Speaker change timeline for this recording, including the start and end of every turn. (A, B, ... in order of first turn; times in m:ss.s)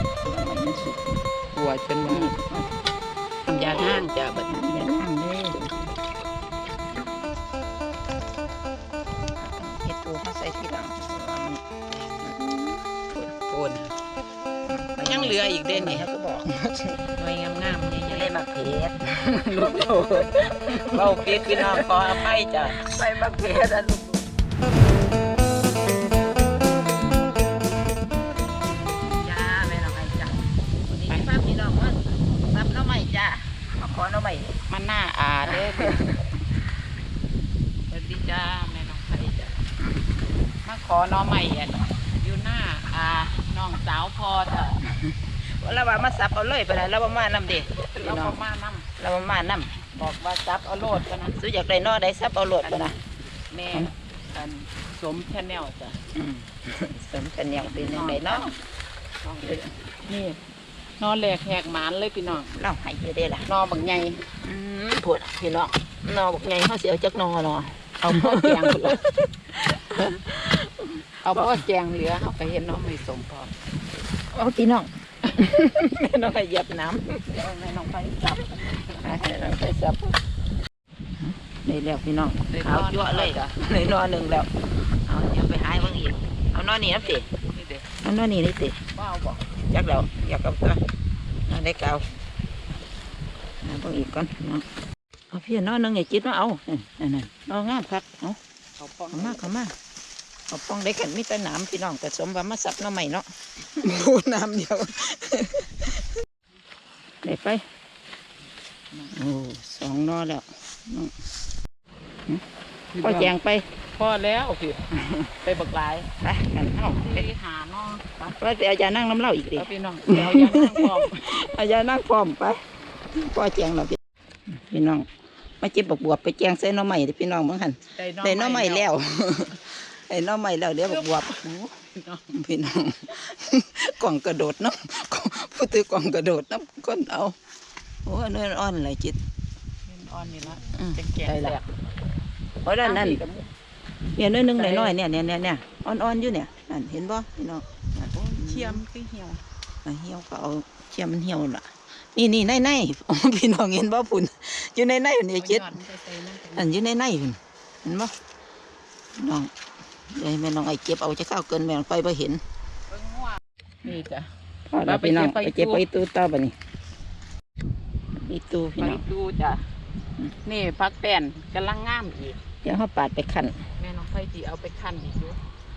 0:00.2-0:01.2 A
0:01.5-0:02.3 B
0:02.1-0:02.7 A
0:03.4-0:04.5 B
0:04.5-0:05.9 A
0:09.4-0:11.6 A
0:11.9-0:12.3 B
0:12.2-0:13.3 A
0:13.4-0:13.9 B
0:14.6-0:17.0 A
0:15.0-0:16.1 B
0:17.2-0:18.3 B
0:18.0-0:24.2 A
0:19.2-0:22.7 B
0:29.1-0:34.6 A
0:34.7-0:36.1 B
0:35.4-0:36.2 A
0:37.9-0:39.6 B
0:40.6-0:44.8 B
0:44.8-0:48.4 A
0:47.9-0:48.9 B
0:49.0-0:49.8 A
0:49.9-0:51.4 B
0:51.3-0:53.0 A
0:52.6-0:56.0 B
0:56.1-0:58.5 A
0:57.6-0:58.6 B
0:59.2-1:00.4 B
0:59.4-0:59.7 A
1:01.0-1:02.5 B
1:02.5-1:03.5 A
1:03.4-1:04.2 B
1:04.4-1:11.6 A
1:08.0-1:09.0 B
1:11.2-1:13.5 B
1:14.3-1:20.2 A
1:21.2-1:27.3 A
1:22.4-1:23.5 B
1:27.0-1:27.9 B
1:28.0-1:28.8 A
1:28.9-1:29.4 B
1:29.6-1:30.8 A
1:31.4-1:32.0 A
1:33.6-1:34.6 A
1:35.3-1:38.4 A
1:38.8-1:39.6 B
1:39.1-1:39.7 A
1:40.5-1:46.1 A
1:47.2-1:47.6 A
1:49.1-1:51.1 A
1:52.9-1:53.3 B
1:53.0-1:53.7 A
1:53.9-1:54.8 B
1:55.0-1:55.3 A
1:55.4-1:56.1 B
1:56.2-1:57.3 A
1:56.8-1:58.1 B
1:58.2-2:02.6 A
1:59.5-2:01.2 B
2:03.1-2:04.0 A
2:04.5-2:05.1 A
2:05.6-2:11.6 A
2:07.9-2:08.9 B
2:10.8-2:12.3 B
2:12.3-2:17.4 A
2:18.0-2:19.2 A
2:19.9-2:21.7 B
2:20.7-2:21.6 A
2:22.6-2:23.2 A
2:22.8-2:23.5 B
2:24.2-2:28.8 A
2:24.5-2:25.0 B
2:28.1-2:29.4 B
2:29.8-2:35.8 A
2:35.3-2:36.7 B
2:36.5-2:38.1 A
2:39.2-2:39.5 A
2:40.1-2:42.4 A
2:42.9-2:44.3 B
2:44.7-2:46.6 A
2:44.8-2:45.8 B
2:48.2-2:49.0 A
2:48.8-2:49.6 B
2:50.4-2:52.4 B
2:52.6-2:53.6 A
2:53.8-2:55.4 B